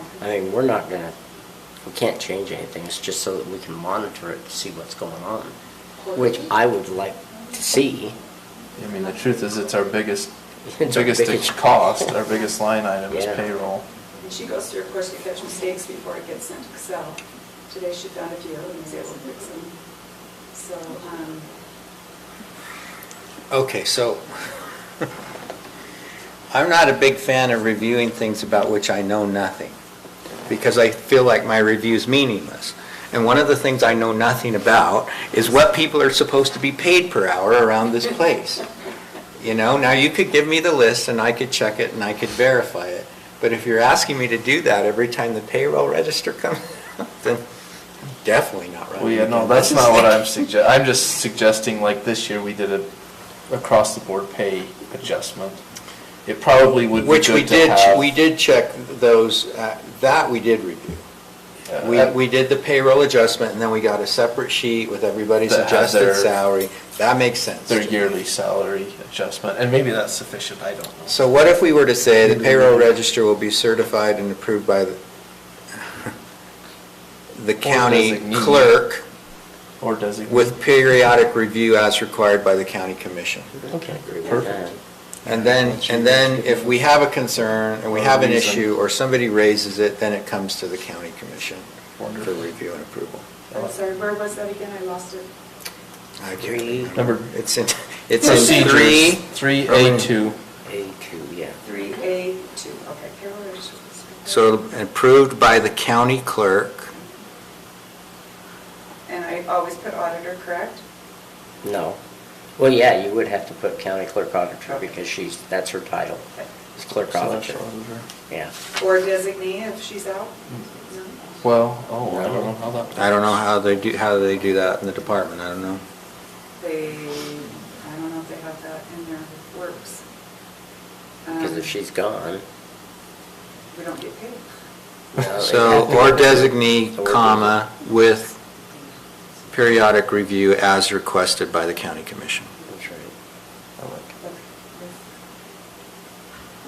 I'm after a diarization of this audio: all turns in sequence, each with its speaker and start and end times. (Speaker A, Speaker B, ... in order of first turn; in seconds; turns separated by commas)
Speaker A: 0.2-1.1, Speaker A: 1.8-5.5, Speaker A: 6.0-8.2, Speaker B: 8.8-10.3, Speaker A: 10.7-11.6, Speaker B: 10.8-13.8, Speaker A: 13.1-13.4, Speaker C: 14.3-17.2, Speaker C: 17.7-19.7, Speaker C: 20.6-21.4, Speaker D: 23.5-24.6, Speaker D: 26.5-29.7, Speaker D: 30.5-38.6, Speaker D: 39.4-47.4, Speaker D: 48.2-50.1, Speaker B: 49.0-52.9, Speaker B: 53.5-55.6, Speaker B: 56.2-58.1, Speaker D: 57.0-61.0, Speaker B: 61.7-62.1, Speaker D: 61.8-68.2, Speaker B: 65.5-66.3, Speaker B: 67.7-71.2, Speaker D: 71.1-75.0, Speaker D: 75.7-76.1, Speaker D: 77.3-79.0, Speaker B: 77.6-78.8, Speaker B: 79.8-80.6, Speaker D: 80.3-83.5, Speaker A: 83.6-84.8, Speaker B: 83.7-84.6, Speaker D: 85.2-91.7, Speaker B: 85.3-86.2, Speaker A: 86.2-86.7, Speaker B: 87.9-88.7, Speaker B: 92.0-92.4, Speaker D: 92.2-93.3, Speaker B: 93.5-93.8, Speaker C: 93.6-95.3, Speaker D: 96.2-100.0, Speaker A: 96.4-96.9, Speaker B: 96.9-97.3, Speaker B: 98.2-100.4, Speaker A: 100.7-101.6, Speaker C: 101.7-104.3, Speaker D: 104.2-106.9, Speaker C: 109.1-110.8, Speaker A: 111.6-112.0, Speaker A: 112.6-117.6, Speaker B: 116.9-118.0, Speaker C: 118.8-120.3, Speaker B: 121.4-123.4, Speaker A: 122.1-122.5, Speaker D: 123.0-125.8, Speaker C: 126.6-130.0, Speaker A: 131.3-132.4, Speaker C: 133.7-134.4, Speaker A: 135.1-137.5, Speaker D: 135.4-138.4, Speaker D: 139.5-142.5, Speaker A: 142.7-143.1, Speaker B: 143.8-144.2